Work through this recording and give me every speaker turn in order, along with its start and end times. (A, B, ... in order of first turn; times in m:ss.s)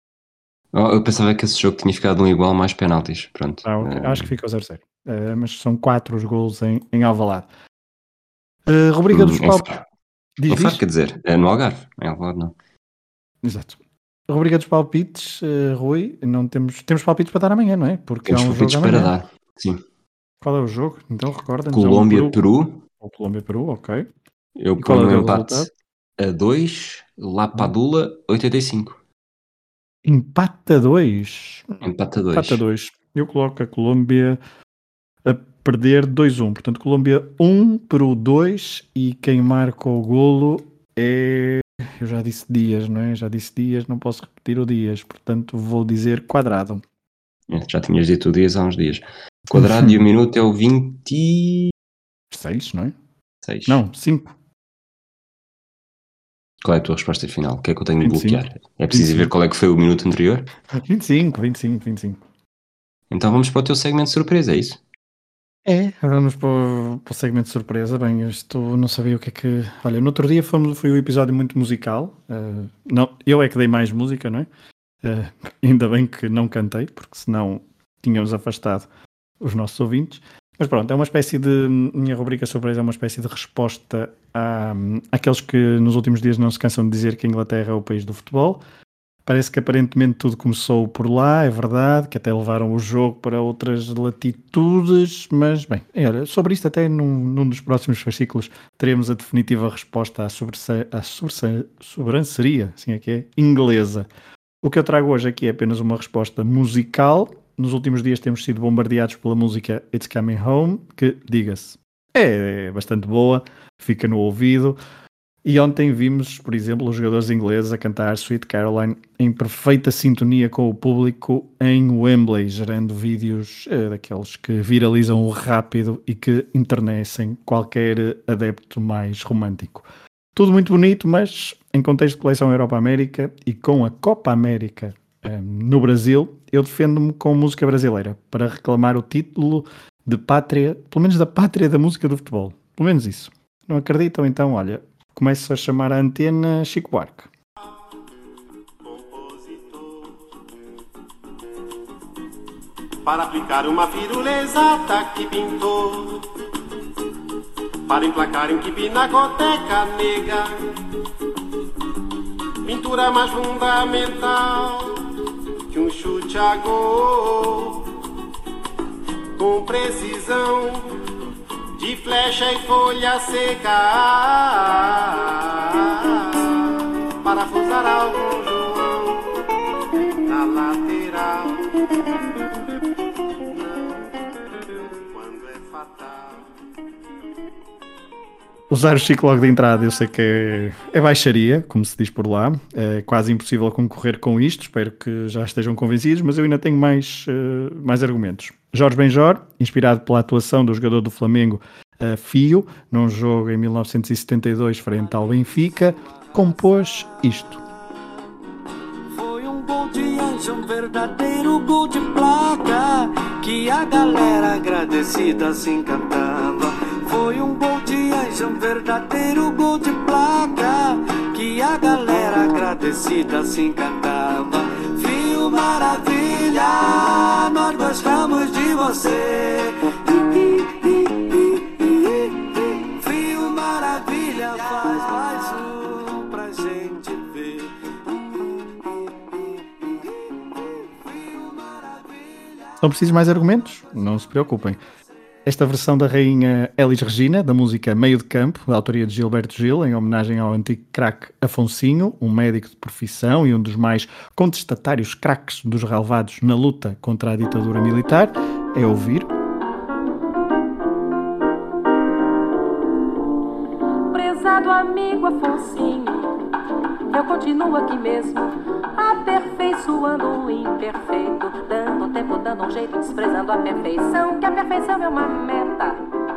0:00.7-0:04.3 A
0:03.6-0:07.5 B
0:08.7-0:09.8 B
0:09.1-0:09.8 A
0:10.4-0:10.8 B
0:10.5-0:12.5 A
0:13.4-0:13.8 B
0:14.3-0:19.1 B
0:18.3-0:19.8 A
0:20.4-0:22.4 B
0:21.7-0:22.8 A
0:23.0-0:24.1 B
0:24.6-0:29.0 A
0:24.8-0:25.7 B
0:30.0-0:31.8 B
0:31.8-0:32.6 A
0:32.3-0:34.4 B
0:35.2-0:46.8 B
0:47.5-0:51.7 A
0:49.6-0:49.9 B
0:52.3-0:52.9 B
0:53.4-0:53.8 A
0:53.7-0:54.3 B
0:56.6-1:00.5 A
0:58.0-0:59.3 B
1:00.8-1:02.2 B
1:03.1-1:04.8 A
1:05.6-1:14.5 B
1:15.0-1:18.9 B
1:19.4-1:28.6 B
1:29.2-1:44.1 B
1:44.6-1:54.8 B
1:55.4-2:27.3 B
2:28.8-2:30.2 C
2:33.0-2:36.3 C
2:37.9-2:40.5 C
2:42.6-2:45.0 C
2:45.7-2:48.0 C
2:49.4-2:51.0 C
2:51.7-2:59.4 C
3:00.2-3:02.2 C
3:03.5-3:03.9 C
3:04.6-3:06.5 C
3:08.7-3:27.6 B
3:24.9-3:27.8 D
3:29.1-4:04.2 D
4:02.8-4:04.8 B
4:05.4-4:19.3 B
4:24.1-4:26.4 E
4:27.1-4:36.0 E